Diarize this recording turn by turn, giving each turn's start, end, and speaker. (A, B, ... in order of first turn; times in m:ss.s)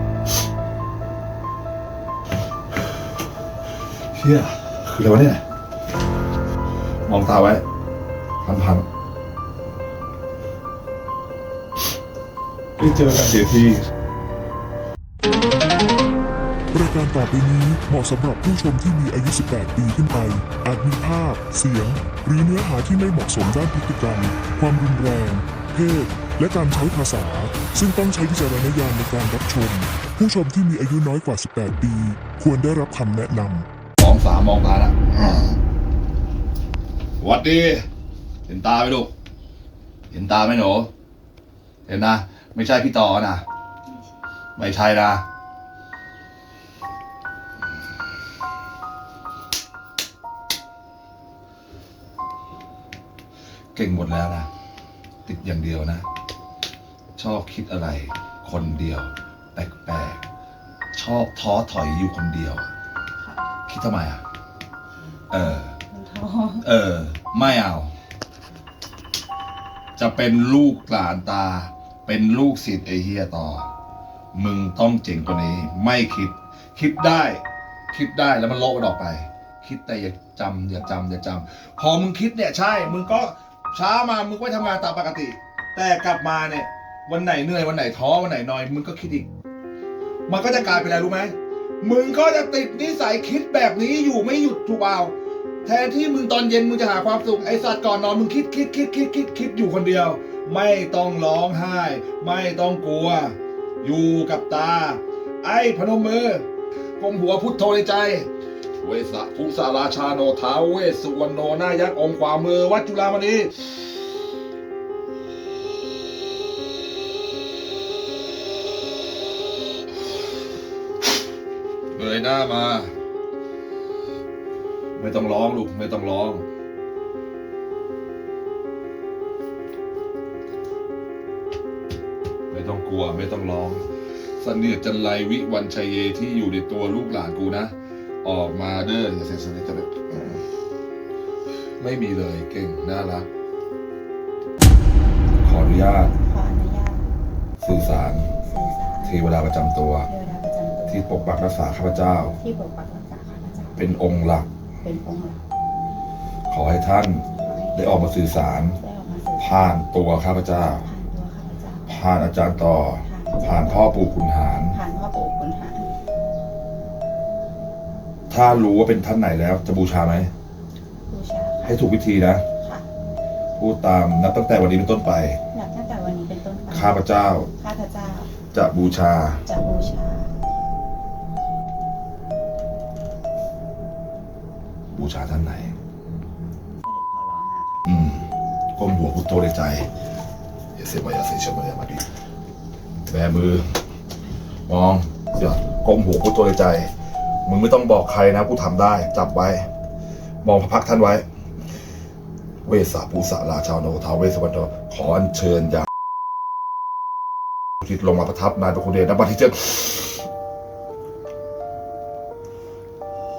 0:04.1-0:05.4 A
0:07.0-0:07.6 A
0:08.4-0:08.8 A
0:12.8-0:13.8 A
0:16.7-0:33.6 B
0:34.0-0:35.5 A
0:37.2-0:37.8 A
0:38.5-0:39.1 A
0:40.1-0:40.9 A
0:41.9-0:43.4 A
0:44.6-0:45.2 A
0:53.7-0:54.5 A
0:55.2-0:56.0 A
0:57.2-1:00.2 A
1:00.9-1:02.7 A
1:03.7-1:04.2 A
1:05.3-1:05.8 A
1:05.9-1:06.6 C
1:06.6-1:07.9 A
1:10.0-1:13.7 A
1:14.3-1:29.3 A
1:30.3-1:46.4 A
1:47.0-1:48.3 A
1:48.8-1:53.5 A
2:01.9-2:02.9 A
2:05.0-2:06.4 A
2:12.5-2:13.8 A
2:14.4-2:20.4 A
2:21.8-2:23.3 A
2:25.4-2:26.1 A
2:26.1-2:27.1 C
2:27.6-2:28.3 A
2:28.4-2:29.1 C
2:29.0-2:30.1 A
2:30.1-2:31.1 C
2:30.9-2:32.3 A
2:32.3-2:33.8 C
2:33.8-2:34.5 A
2:34.8-2:35.4 C
2:36.5-2:38.8 A
2:37.4-2:39.7 C
2:39.4-2:40.8 A
2:40.8-2:41.9 C
2:41.9-2:44.8 A
2:43.0-2:44.0 C
2:44.7-2:45.8 C
2:48.3-2:50.3 A
2:51.1-2:51.8 C
2:51.6-2:52.4 A
2:52.6-2:52.8 C
2:53.6-2:55.4 A
2:55.5-2:57.0 C
2:56.7-2:57.5 A
2:57.6-2:58.3 C
2:58.5-2:59.4 A
2:59.4-3:00.3 C
3:04.9-3:05.7 A
3:06.8-3:07.8 C
3:07.8-3:09.9 A
3:10.7-3:12.0 A
3:13.1-3:13.7 A
3:14.7-3:16.9 A
3:17.4-3:19.7 A
3:20.4-3:21.2 A
3:22.6-3:25.9 A
3:27.8-3:30.2 A